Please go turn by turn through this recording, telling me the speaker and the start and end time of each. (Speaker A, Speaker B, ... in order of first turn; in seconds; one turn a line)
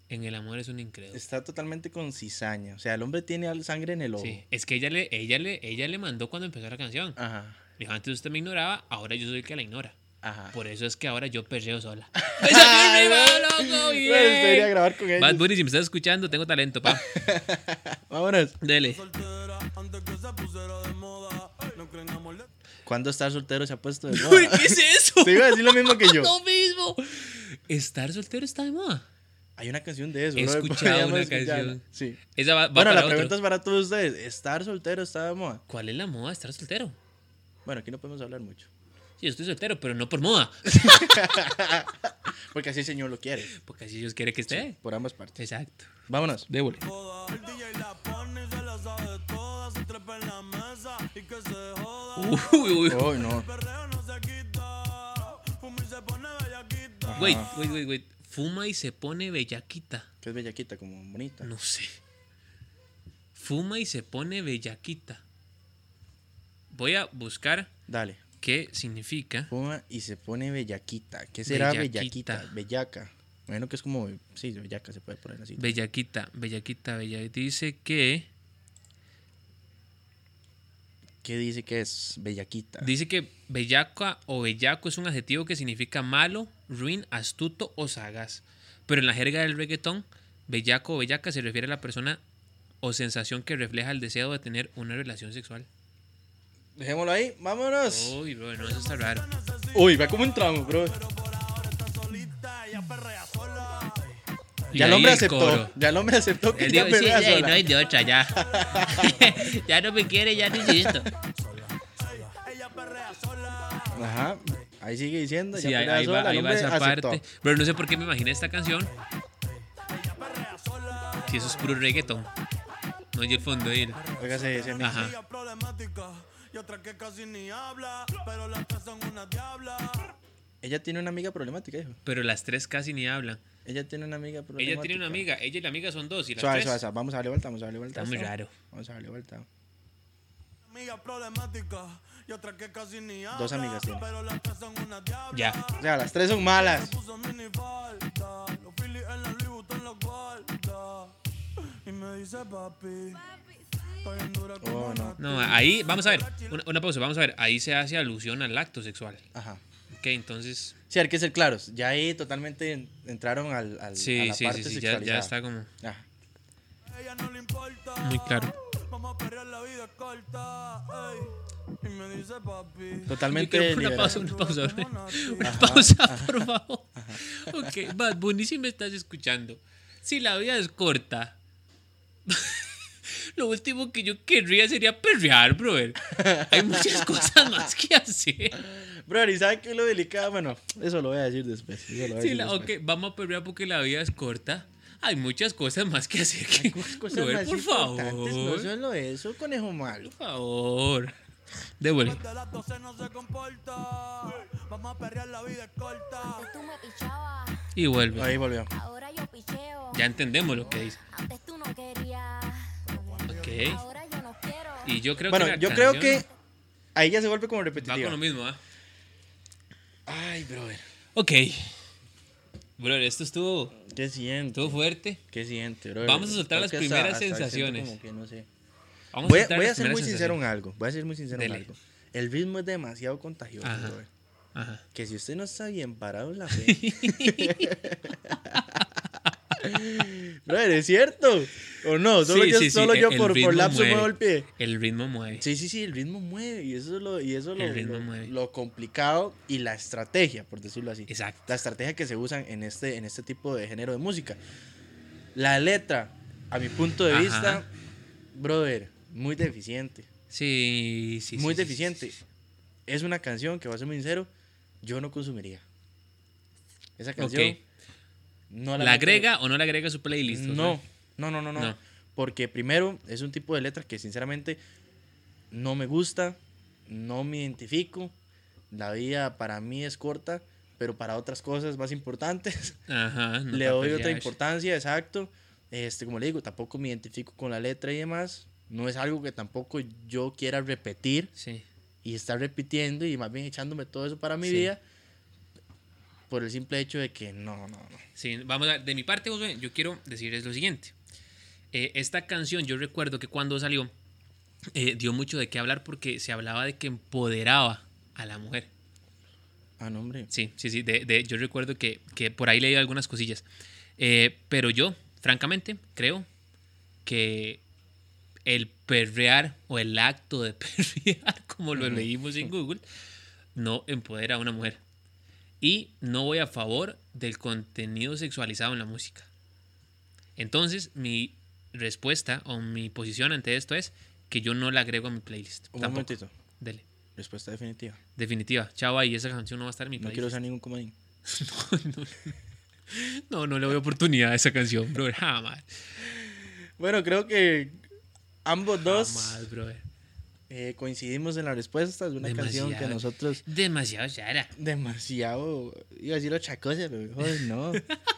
Speaker A: 0.1-1.2
Speaker B: 1.1-4.4
Speaker A: 4.2-7.2
Speaker B: 7.2-7.6
Speaker A: 7.8-10.0
Speaker B: 10.2-10.6
Speaker A: 10.5-17.1
Speaker B: 12.2-15.5
Speaker B: 16.9-18.6
Speaker A: 18.6-19.0
Speaker C: 18.9-22.5
Speaker B: 22.9-26.3
Speaker A: 24.1-29.1
Speaker B: 29.6-32.2
Speaker A: 30.4-31.8
Speaker A: 32.3-33.4
Speaker B: 32.7-35.6
Speaker A: 35.7-37.0
Speaker B: 37.6-38.7
Speaker A: 39.2-41.2
Speaker B: 40.7-43.5
Speaker A: 43.5-44.8
Speaker B: 44.5-45.4
Speaker A: 45.4-45.9
Speaker B: 46.1-46.5
Speaker A: 46.5-46.8
Speaker C: 46.8-57.8
Speaker A: 52.2-53.1
Speaker B: 52.9-53.5
Speaker B: 57.1-57.5
Speaker A: 57.2-60.1
Speaker B: 60.2-61.5
Speaker A: 61.4-62.0
Speaker A: 63.4-65.2
Speaker A: 66.7-67.7
Speaker B: 67.9-68.2
Speaker A: 68.4-69.5
Speaker B: 69.5-75.8
Speaker A: 71.5-72.5
Speaker A: 75.6-78.3
Speaker B: 81.2-82.9
Speaker A: 82.8-92.2
Speaker A: 92.8-95.7
Speaker B: 96.8-98.2
Speaker A: 97.8-99.2
Speaker C: 98.6-105.1
Speaker B: 99.7-101.0
Speaker A: 104.7-105.7
Speaker B: 104.7-107.7
Speaker A: 106.5-111.1
Speaker C: 108.3-109.6
Speaker B: 108.4-109.1
Speaker B: 110.5-111.1
Speaker C: 111.4-114.7
Speaker B: 113.9-117.2
Speaker A: 115.5-118.9
Speaker C: 118.8-122.3
Speaker A: 121.3-122.3
Speaker A: 123.1-124.0
Speaker C: 123.9-130.2
Speaker B: 124.2-125.1
Speaker A: 124.8-125.2
Speaker B: 130.6-132.0
Speaker A: 132.1-133.4
Speaker B: 133.7-135.2
Speaker A: 134.6-136.8
Speaker B: 136.4-139.5
Speaker A: 137.9-138.5
Speaker C: 140.7-153.3
Speaker B: 143.3-144.1
Speaker A: 145.3-145.6
Speaker B: 145.8-146.9
Speaker C: 153.9-156.6
Speaker B: 154.6-155.2
Speaker A: 155.2-159.2
Speaker B: 159.3-159.6
Speaker A: 159.9-160.8
Speaker B: 160.9-166.1
Speaker A: 163.9-165.7
Speaker C: 166.9-175.9
Speaker A: 168.0-168.5
Speaker B: 173.1-174.2
Speaker A: 173.3-181.3
Speaker B: 175.4-177.9
Speaker A: 182.3-188.6
Speaker B: 186.1-187.6
Speaker B: 188.6-192.7
Speaker A: 192.1-198.7
Speaker B: 196.5-200.1
Speaker A: 200.0-201.1
Speaker A: 201.8-202.2
Speaker C: 202.0-206.5
Speaker D: 206.2-207.7
Speaker A: 207.8-208.4
Speaker B: 208.2-208.7
Speaker D: 208.6-215.0
Speaker A: 209.9-211.0
Speaker C: 212.9-213.8
Speaker A: 213.3-213.8
Speaker A: 214.8-216.2
Speaker B: 215.3-216.3
Speaker B: 216.9-218.2
Speaker A: 217.8-218.6
Speaker B: 220.1-220.8
Speaker A: 221.2-221.8
Speaker A: 222.8-223.8
Speaker B: 223.8-228.5
Speaker A: 224.5-225.2
Speaker A: 226.0-228.0
Speaker A: 229.1-230.4
Speaker B: 229.2-234.1
Speaker A: 231.3-231.7
Speaker A: 233.6-234.0
Speaker A: 234.6-234.8
Speaker B: 234.9-238.8
Speaker A: 236.5-237.7
Speaker A: 238.6-239.3
Speaker B: 239.6-244.5
Speaker A: 242.2-245.5
Speaker B: 245.3-254.4
Speaker A: 247.6-248.3
Speaker A: 251.1-251.5
Speaker B: 255.3-257.7
Speaker A: 257.1-257.6
Speaker B: 258.3-260.1
Speaker A: 260.3-262.0
Speaker B: 261.4-262.2
Speaker B: 262.9-264.3
Speaker B: 264.8-265.6
Speaker B: 267.0-267.6
Speaker A: 267.2-267.6
Speaker B: 268.5-269.3
Speaker A: 268.8-270.8
Speaker B: 270.3-274.6
Speaker B: 275.5-278.1
Speaker B: 278.7-282.8
Speaker A: 282.9-284.4
Speaker B: 283.5-291.3
Speaker A: 291.4-291.6
Speaker B: 292.0-294.8
Speaker A: 294.4-294.7
Speaker B: 296.3-298.0
Speaker A: 298.2-300.9
Speaker A: 301.7-303.9
Speaker A: 304.7-308.7
Speaker B: 309.8-310.3
Speaker A: 310.3-313.4
Speaker A: 314.0-316.3
Speaker A: 317.1-317.6
Speaker A: 318.5-322.8
Speaker B: 321.8-322.5
Speaker A: 323.6-324.8
Speaker A: 325.6-329.3
Speaker A: 330.4-336.8
Speaker B: 335.7-336.3
Speaker B: 337.2-338.0
Speaker A: 338.2-340.4
Speaker B: 340.0-340.9
Speaker A: 341.3-342.4
Speaker A: 342.9-345.7
Speaker B: 346.0-347.9
Speaker B: 348.4-349.4
Speaker A: 348.8-349.9
Speaker B: 350.5-353.4
Speaker A: 352.2-354.5
Speaker B: 354.6-357.8